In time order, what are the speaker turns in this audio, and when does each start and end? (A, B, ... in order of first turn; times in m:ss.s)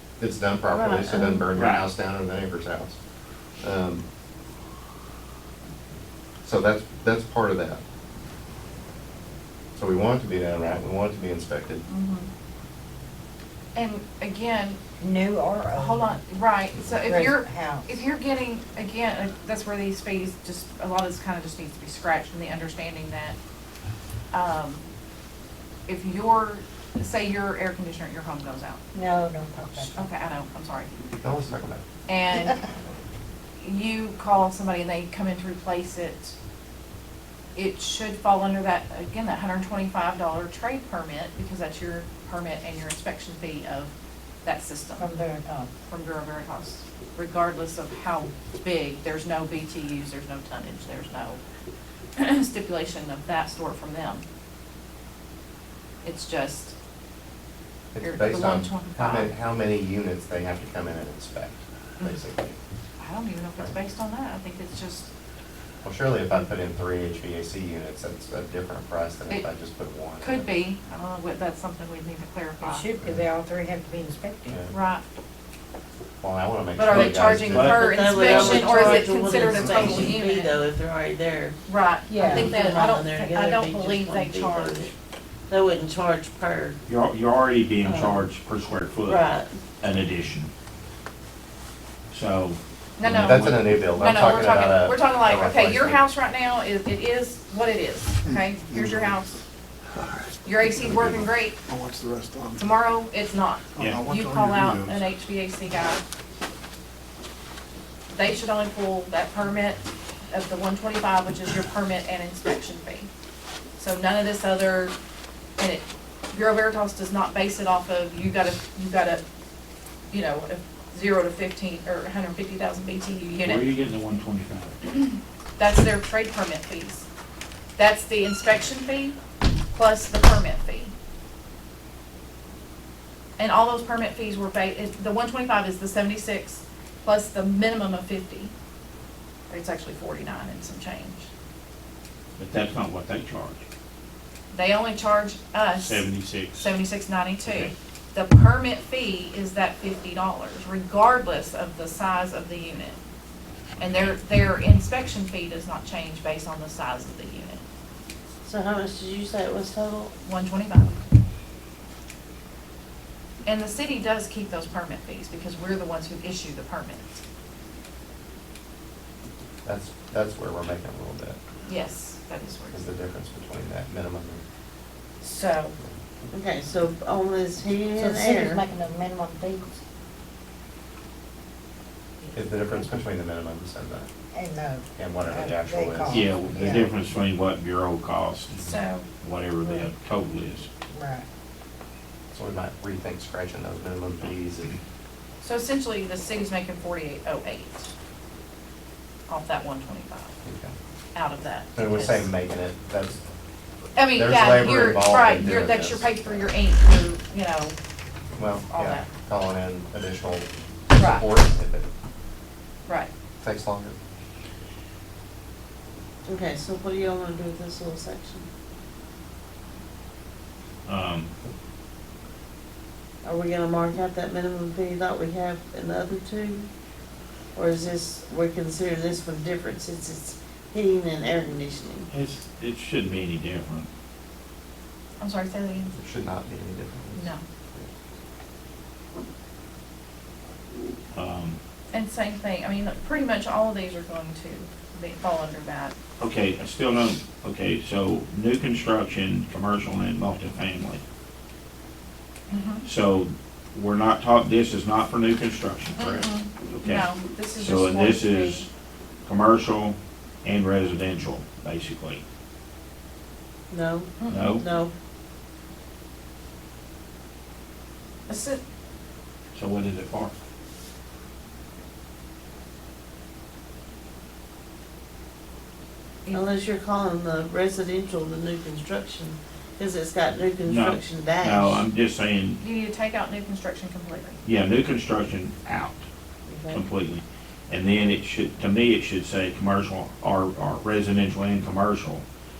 0:00.2-0:03.0 A
0:00.7-0:01.4 B
0:01.5-0:01.9 C
0:03.6-0:04.0 A
0:06.4-0:07.8 A
0:09.8-0:11.8 A
0:11.9-0:12.3 D
0:13.7-0:14.8 D
0:15.0-0:16.2 E
0:15.7-0:23.4 D
0:16.9-0:18.0 E
0:24.3-0:24.8 D
0:25.9-0:28.8 D
0:28.9-0:30.1 E
0:29.7-0:31.0 D
0:31.2-0:31.8 A
0:32.1-0:32.6 D
0:33.6-0:36.3 D
0:37.5-0:43.9 D
0:44.4-0:45.2 D
0:45.0-0:45.7 E
0:45.8-0:51.4 D
0:52.2-0:54.2 D
0:56.0-0:56.7 D
0:57.9-1:02.6 A
0:58.0-0:59.3 D
1:03.0-1:05.1 D
1:05.8-1:10.4 A
1:10.2-1:12.9 D
1:12.6-1:14.6 E
1:14.7-1:15.0 D
1:16.2-1:17.8 A
1:16.8-1:20.6 D
1:16.9-1:17.9 C
1:17.6-1:21.6 B
1:21.7-1:24.9 D
1:22.1-1:22.8 E
1:22.2-1:24.9 B
1:25.5-1:26.8 B
1:26.9-1:29.2 C
1:27.8-1:28.3 B
1:29.0-1:29.6 B
1:29.8-1:30.5 C
1:32.1-1:33.6 C
1:33.0-1:39.3 D
1:33.0-1:36.0 A
1:38.2-1:39.2 F
1:40.0-1:40.3 F
1:40.4-1:41.6 D
1:40.8-1:42.6 F
1:42.6-1:46.0 D
1:43.8-1:45.1 F
1:43.8-1:44.0 C
1:48.1-1:53.1 D
1:53.8-1:54.9 D
1:55.6-1:59.2 D
2:00.1-2:03.8 D
2:03.4-2:04.8 C
2:04.9-2:07.0 D
2:07.8-2:09.2 D
2:09.7-2:10.9 D
2:13.4-2:18.5 D
2:19.5-2:21.3 D
2:22.4-2:23.6 C
2:24.5-2:33.0 D
2:25.7-2:26.7 C
2:27.4-2:27.7 C
2:33.8-2:37.6 D
2:38.4-2:40.1 B
2:40.2-2:41.0 D
2:43.4-2:47.2 D
2:49.6-2:51.4 A
2:51.6-2:52.9 D
2:52.7-2:54.4 A
2:55.2-2:55.7 D
2:56.3-2:58.6 B
2:58.0-2:59.8 E
3:02.2-3:02.5 D
3:02.3-3:04.1 A
3:04.3-3:06.9 E
3:04.9-3:06.8 A
3:06.1-3:10.7 C
3:08.6-3:09.0 D
3:09.6-3:09.9 E
3:10.9-3:11.2 E
3:12.3-3:14.8 A
3:15.4-3:17.9 D
3:19.3-3:20.3 D
3:20.4-3:20.7 A
3:21.1-3:22.3 D
3:21.8-3:23.2 A
3:24.0-3:27.8 D
3:24.1-3:26.5 A
3:28.3-3:31.9 A
3:28.7-3:29.1 D
3:30.9-3:31.3 D
3:33.4-3:34.0 A
3:36.2-3:38.5 B
3:40.8-3:41.3 C
3:43.2-3:46.7 B
3:47.5-3:52.1 B
3:52.1-3:53.9 C
3:55.2-3:55.9 D
3:55.9-3:57.9 A
3:57.1-3:57.4 D
4:01.1-4:01.6 C
4:01.9-4:05.9 D
4:06.2-4:11.0 C
4:12.5-4:12.8 D
4:12.8-4:18.7 C
4:16.0-4:18.7 D
4:19.2-4:22.2 C
4:23.7-4:24.9 B
4:24.2-4:24.6 D
4:24.3-4:24.6 C
4:28.3-4:28.6 D
4:29.5-4:30.3 C
4:36.3-4:41.8 B
4:40.6-4:42.6 C
4:42.6-4:44.4 D
4:44.4-4:46.0 C
4:46.5-4:46.8 B
4:46.7-4:52.2 C